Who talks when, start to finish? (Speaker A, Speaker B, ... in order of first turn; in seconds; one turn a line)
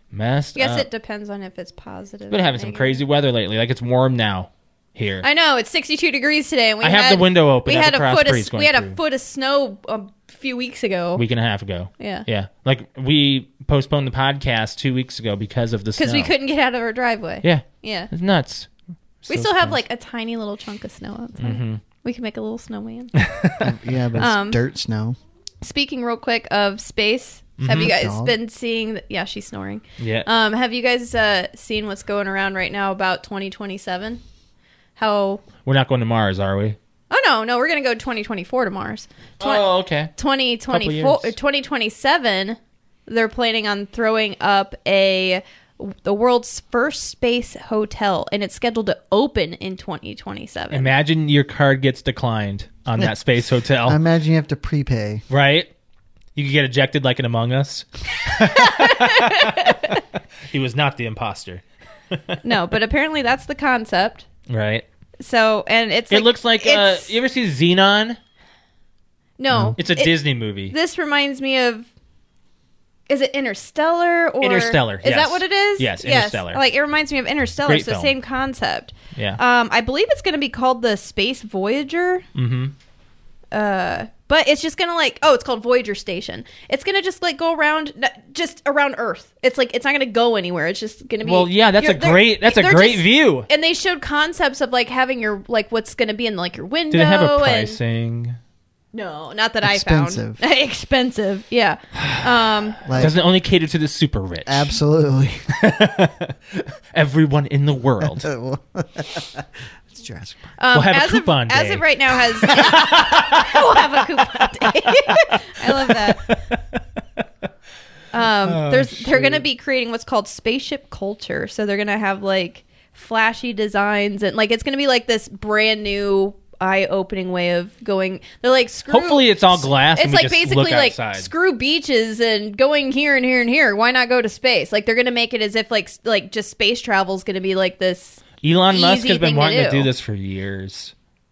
Speaker A: 0.1-0.9
Speaker B: 0.6-3.0
Speaker A: 2.3-5.3
Speaker B: 5.2-11.2
Speaker A: 6.8-9.0
Speaker A: 11.2-16.3
Speaker B: 12.0-12.2
Speaker B: 16.0-18.1
Speaker A: 17.4-18.7
Speaker A: 19.2-19.8
Speaker B: 19.3-23.1
Speaker A: 21.4-21.8
Speaker A: 23.1-23.7
Speaker C: 23.6-25.2
Speaker B: 24.2-24.6
Speaker B: 25.6-34.2
Speaker A: 27.6-27.9
Speaker C: 27.7-28.3
Speaker A: 30.0-30.3
Speaker B: 35.0-35.4
Speaker A: 35.6-36.8
Speaker B: 37.1-50.9
Speaker A: 39.4-40.1
Speaker A: 40.7-41.3
Speaker A: 50.7-54.0
Speaker C: 53.9-55.2
Speaker A: 55.3-55.7
Speaker A: 56.4-62.5
Speaker B: 58.4-60.0
Speaker B: 62.4-64.2
Speaker A: 64.5-64.8
Speaker B: 65.2-67.1
Speaker A: 66.1-68.2
Speaker B: 69.4-71.9
Speaker A: 69.8-70.7
Speaker B: 73.1-82.2
Speaker A: 74.4-76.6
Speaker A: 77.7-78.1
Speaker A: 79.2-79.4
Speaker A: 82.3-82.7
Speaker B: 83.5-97.8
Speaker A: 91.2-93.5
Speaker A: 96.9-98.4
Speaker B: 98.9-102.9
Speaker C: 99.6-100.4
Speaker C: 102.8-103.2
Speaker A: 102.9-104.7
Speaker C: 104.5-105.4
Speaker A: 105.5-108.3
Speaker C: 108.0-110.5
Speaker B: 110.6-116.4
Speaker A: 110.7-117.2
Speaker B: 118.1-139.9
Speaker A: 118.4-119.4
Speaker A: 128.9-131.3
Speaker A: 138.4-140.9